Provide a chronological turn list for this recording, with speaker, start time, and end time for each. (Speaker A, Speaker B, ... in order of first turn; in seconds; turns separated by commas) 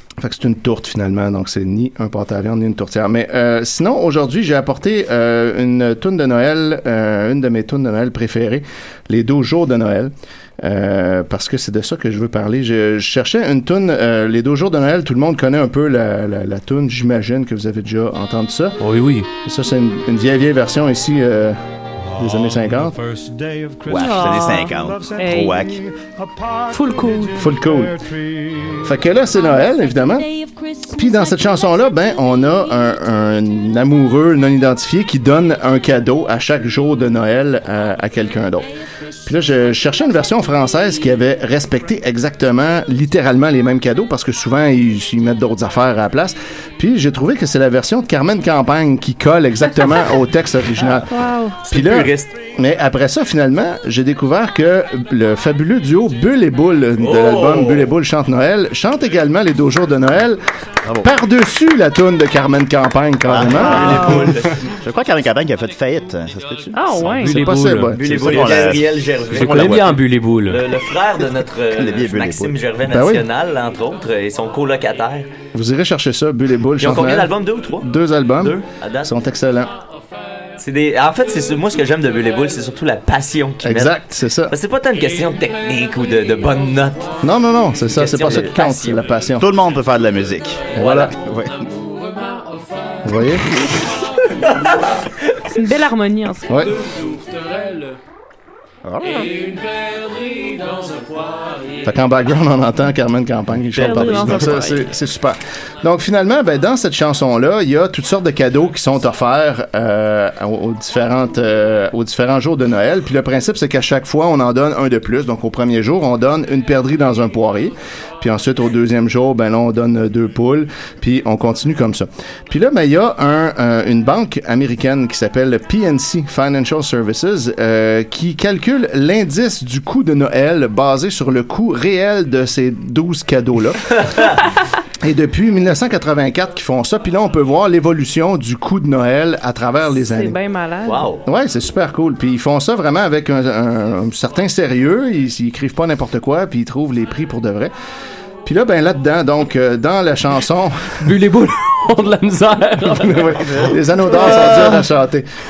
Speaker A: 0.2-18.8, Speaker B: 18.8-19.3, Speaker A: 19.4-21.6, Speaker A: 22.1-23.0, Speaker C: 23.9-25.8, Speaker D: 23.9-25.6, Speaker D: 26.7-27.4, Speaker A: 27.3-28.0, Speaker A: 28.8-30.3, Speaker A: 30.9-38.7, Speaker A: 39.2-51.1, Speaker D: 51.1-51.6, Speaker E: 51.6-52.3, Speaker A: 51.7-60.4, Speaker E: 57.0-57.9, Speaker A: 61.0-64.2, Speaker C: 63.3-64.2, Speaker E: 63.6-64.5, Speaker D: 63.8-64.1, Speaker C: 64.8-67.1, Speaker D: 66.7-67.4, Speaker B: 67.0-68.0, Speaker A: 67.2-68.7, Speaker E: 67.9-75.3, Speaker C: 68.0-69.9, Speaker B: 69.3-70.6, Speaker C: 71.7-72.6, Speaker A: 72.9-73.2, Speaker A: 75.5-79.7, Speaker E: 76.8-79.1, Speaker E: 80.6-87.2, Speaker A: 83.6-84.5, Speaker A: 87.2-89.5, Speaker E: 87.9-89.0, Speaker C: 89.4-91.6, Speaker A: 90.7-91.1, Speaker E: 90.8-91.1, Speaker A: 93.0-93.5, Speaker D: 95.5-96.5, Speaker A: 96.5-96.7, Speaker C: 98.8-99.3, Speaker A: 101.8-134.0, Speaker D: 103.8-104.8, Speaker E: 134.0-134.4, Speaker A: 135.0-140.4, Speaker D: 140.1-141.1, Speaker E: 140.8-141.2, Speaker A: 141.2-147.7, Speaker A: 148.4-151.0, Speaker B: 151.0-153.3, Speaker A: 152.8-155.2, Speaker C: 153.4-154.7